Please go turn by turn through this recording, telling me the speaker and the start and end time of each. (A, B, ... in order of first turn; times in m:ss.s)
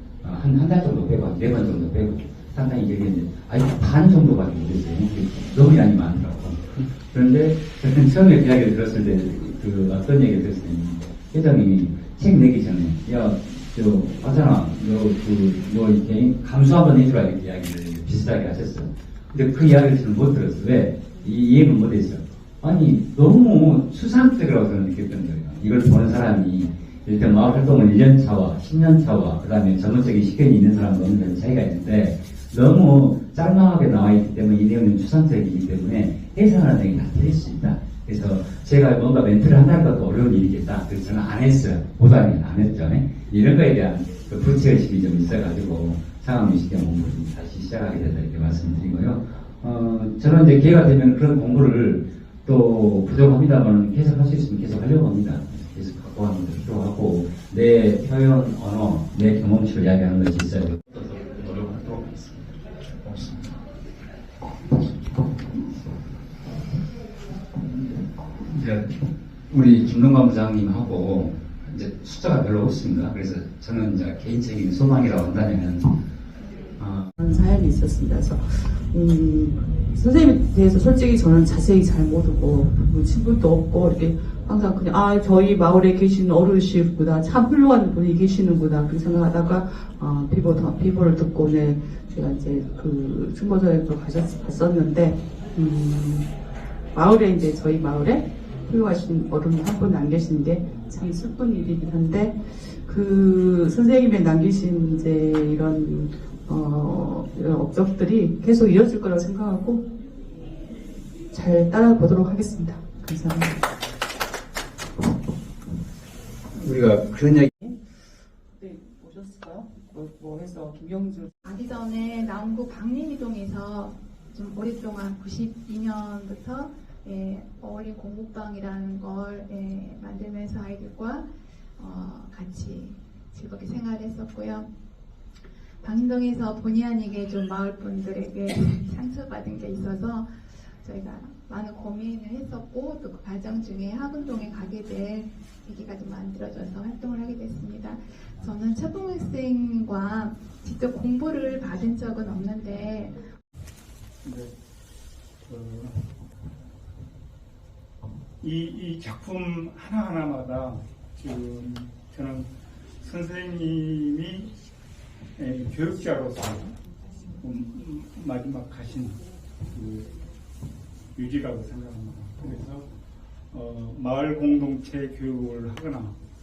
0:00.2-1:00.9 A
1:00.9-1:02.5 B
1:03.1-1:03.5 B
1:07.6-1:16.0 A
1:16.8-1:17.1 A
1:17.2-1:36.3 C
1:36.9-1:49.8 C
1:51.3-1:53.6 C
1:56.6-1:57.5 A
1:58.6-2:01.3 C
2:01.4-2:14.7 D
2:15.8-2:33.2 D
2:34.2-2:34.5 E
2:35.4-2:36.1 E
2:38.4-2:42.5 E
2:43.0-2:44.5 E
2:45.4-2:46.8 E
2:47.4-2:50.1 E
2:51.1-2:52.9 E
2:53.5-2:56.2 E